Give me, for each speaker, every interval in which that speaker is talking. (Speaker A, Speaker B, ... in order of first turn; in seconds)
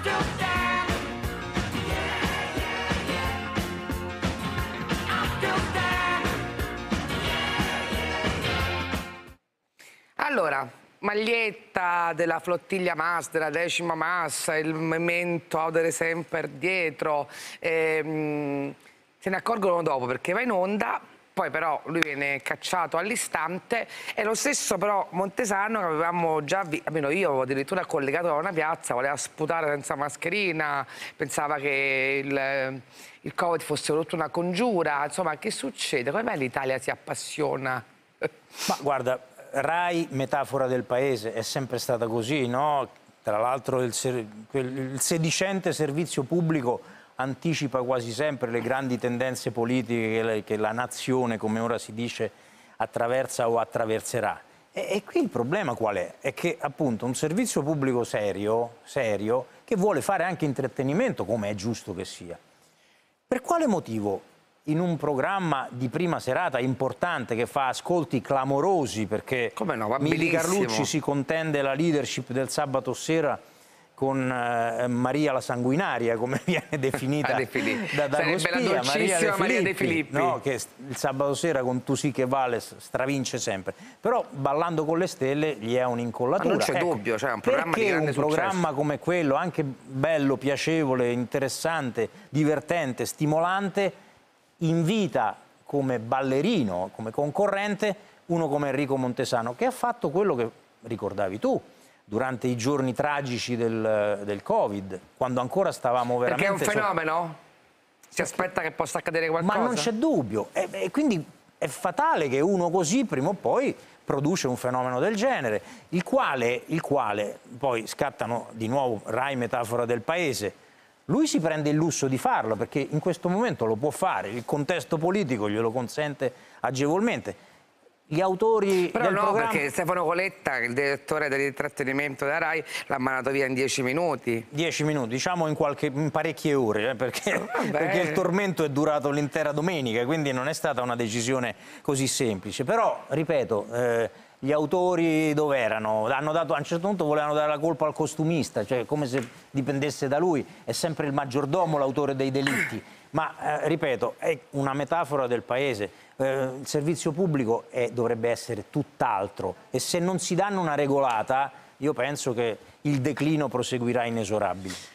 Speaker A: 5.3-6.0, 10.2-38.3, 69.5-70.9, 77.2-80.4, 86.4-88.6, 106.2-107.4, 108.1-109.9, 128.9-134.5, 137.3-138.2
Speaker B: 38.6-62.4, 63.3-73.4, 74.0-93.9, 94.6-106.9, 109.4-120.5, 121.1-127.4, 128.1-129.7, 134.5-164.8